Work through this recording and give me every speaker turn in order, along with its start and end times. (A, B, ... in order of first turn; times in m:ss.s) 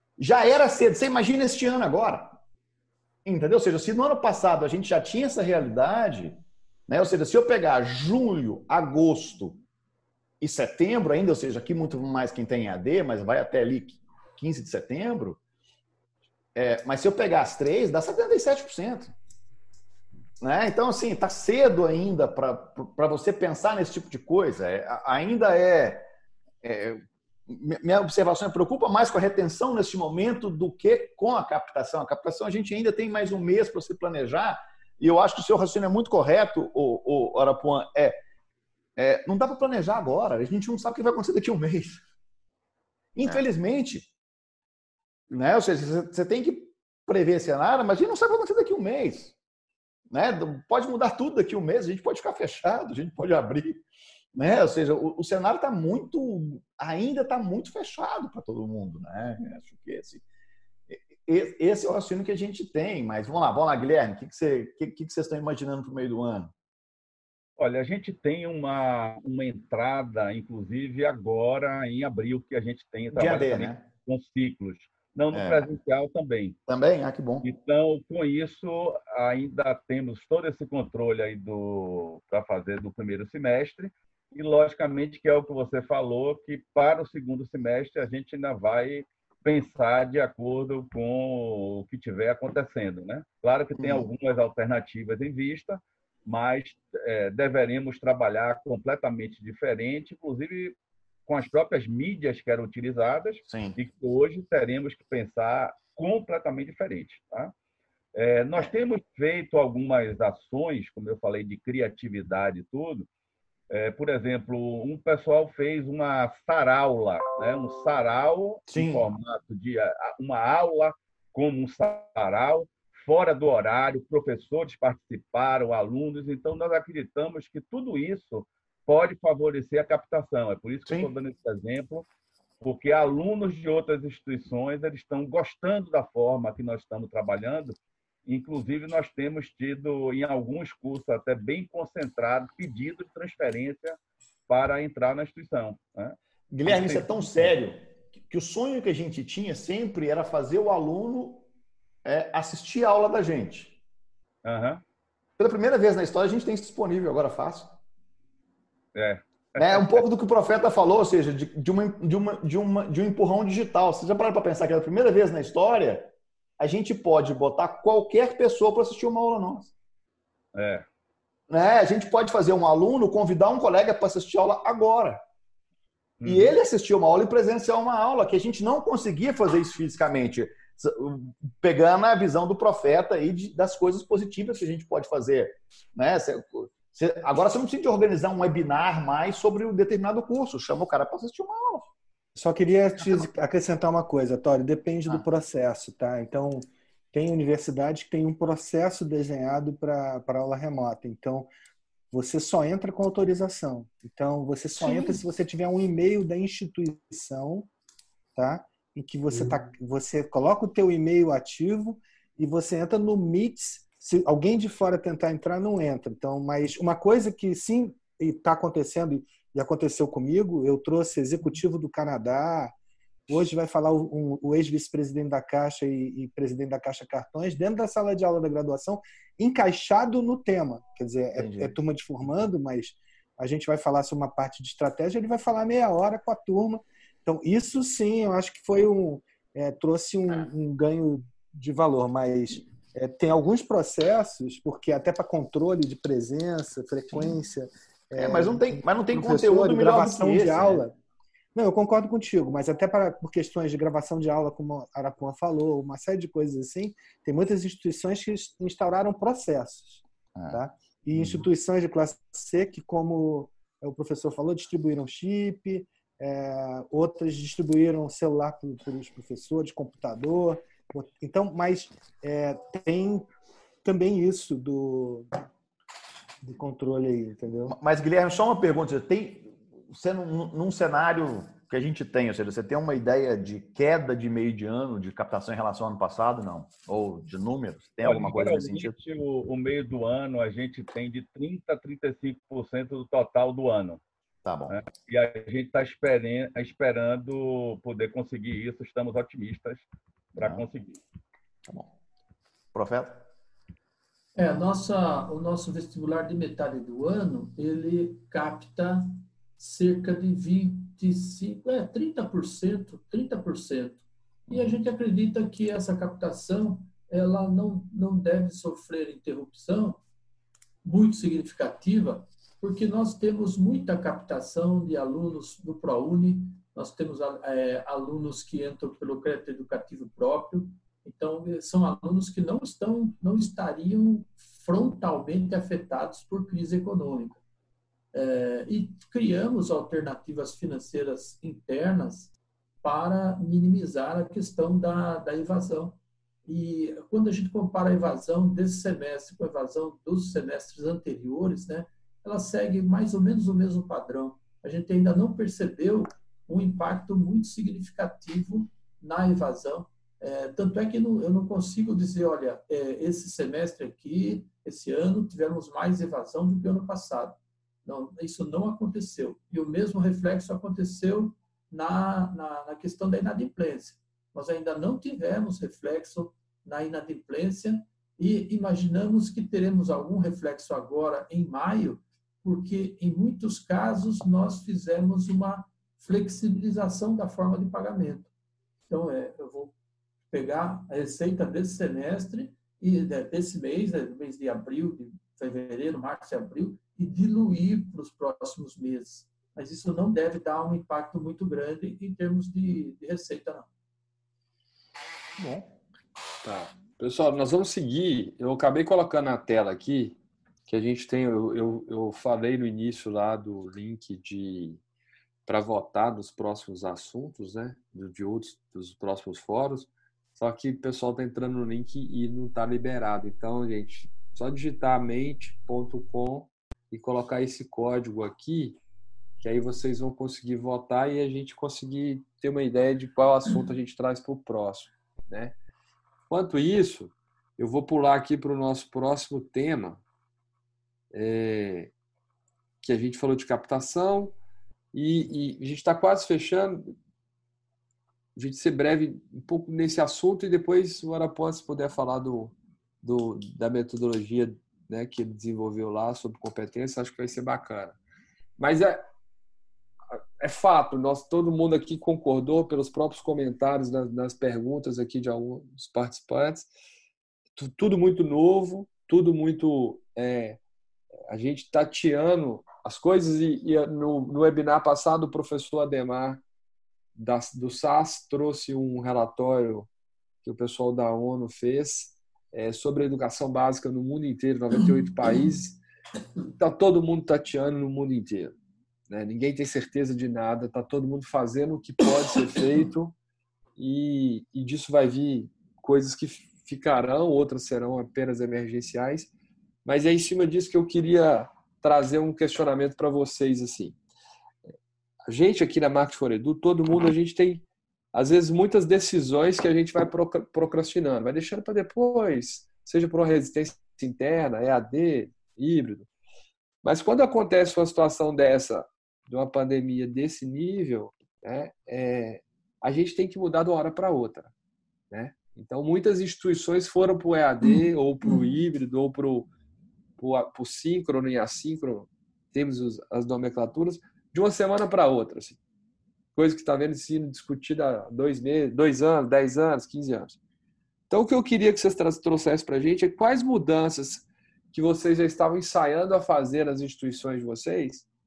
0:00.2-0:02.4 A
0:03.2-0:09.6 A
0:10.4-0:15.4 A
0:16.6-0:19.1 A
0:20.4-0:26.1 A
0:26.6-0:38.2 A
0:39.0-0:42.0 A
0:43.2-0:44.1 A
0:45.3-0:49.3 A
0:50.1-0:53.8 A
0:54.4-1:00.2 A
1:00.9-1:06.5 A
1:07.6-1:16.6 B
1:13.1-1:13.9 A
1:15.3-1:15.7 A
1:16.7-1:17.5 A
1:17.4-1:47.5 B
1:33.8-1:34.1 A
1:43.5-1:43.8 A
1:48.1-1:53.1 B
1:53.7-2:12.1 B
1:58.7-1:59.1 A
2:12.6-2:27.5 B
2:26.5-2:31.5 A
2:32.0-2:33.8 A
2:34.4-2:34.8 B
2:35.4-2:37.8 A
2:38.9-2:40.0 B
2:39.6-2:49.7 A
2:50.5-2:50.8 B
2:51.5-2:55.2 A
2:56.2-2:56.6 B
2:56.2-3:11.9 A
3:12.4-3:21.5 C
3:22.1-3:27.7 C
3:24.9-3:25.2 A
3:28.4-3:42.7 C
3:43.3-4:11.0 C
3:51.4-3:51.7 A
4:08.2-4:10.8 A
4:11.6-4:33.3 C
4:20.4-4:20.6 A
4:21.1-4:21.5 A
4:33.8-4:35.3 C
4:36.4-4:37.8 C
4:37.7-4:49.0 A
4:48.0-4:54.0 B
4:54.4-4:54.8 A
4:54.7-5:01.0 B
5:00.4-5:00.6 A
5:02.7-5:03.2 A
5:04.4-5:20.0 D
5:20.8-5:37.4 D
5:38.1-6:28.3 D
6:28.9-6:29.7 D
6:30.3-6:43.7 D
6:45.4-6:45.7 A
6:46.4-6:54.8 E
6:55.5-7:08.8 E
7:09.4-7:15.6 E
7:16.3-7:20.0 E
7:21.1-7:21.9 E
7:22.8-7:24.4 E
7:24.9-7:26.9 E
7:28.4-7:38.0 E
7:38.6-7:39.1 E
7:40.1-7:46.7 E
7:47.6-7:50.6 E
7:51.3-7:56.4 E
7:57.2-7:59.9 E
8:00.4-8:05.8 E
8:06.6-8:08.5 E
8:09.1-8:13.2 E
8:13.8-8:19.3 E
8:19.8-8:24.0 E
8:25.3-8:36.1 E
8:36.8-8:44.5 E
8:45.1-8:49.5 E
8:50.2-8:55.6 E
8:56.4-9:00.4 E
9:01.1-9:08.1 E